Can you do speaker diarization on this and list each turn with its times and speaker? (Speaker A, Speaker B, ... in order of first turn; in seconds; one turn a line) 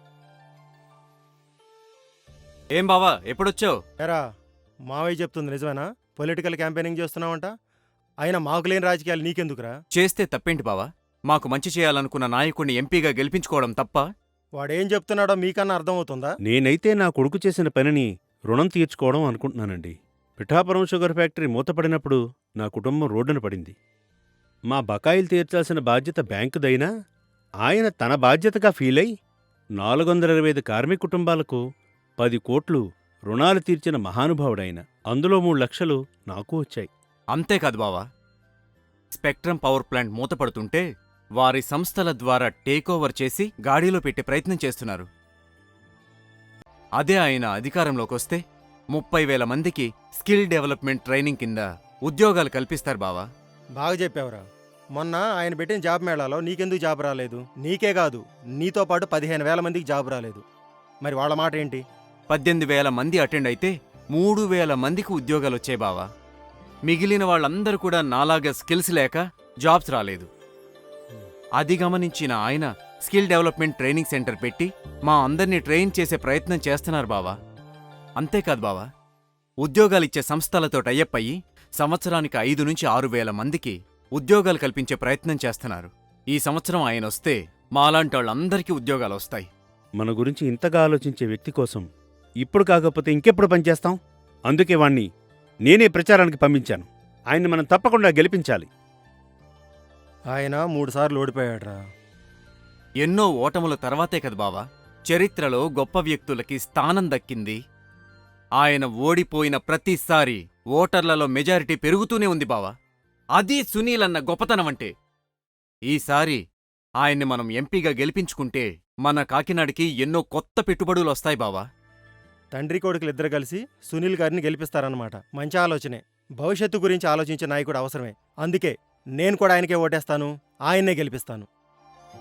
Speaker A: 2.8-3.8
Speaker B: 4.9-7.5
Speaker B: 8.2-9.7
Speaker A: 9.9-14.1
Speaker B: 14.6-16.3
Speaker C: 16.5-23.8
Speaker C: 24.7-26.9
Speaker C: 27.6-29.1
Speaker C: 29.8-31.6
Speaker C: 32.2-36.9
Speaker A: 37.3-38.0
Speaker A: 39.1-40.9
Speaker A: 41.4-45.1
Speaker A: 47.0-53.2
Speaker B: 53.8-54.4
Speaker B: 55.0-60.4
Speaker B: 61.0-61.8
Speaker A: 62.3-66.1
Speaker A: 66.9-70.3
Speaker A: 71.6-77.4
Speaker A: 78.2-78.9
Speaker A: 79.6-89.5
Speaker C: 90.0-91.9
Speaker C: 92.4-94.0
Speaker C: 94.5-95.1
Speaker C: 95.7-98.7
Speaker B: 100.3-101.8
Speaker A: 103.0-107.6
Speaker A: 108.6-112.7
Speaker A: 113.4-114.9
Speaker A: 115.9-116.4
Speaker A: 117.0-121.6
Speaker B: 122.5-131.5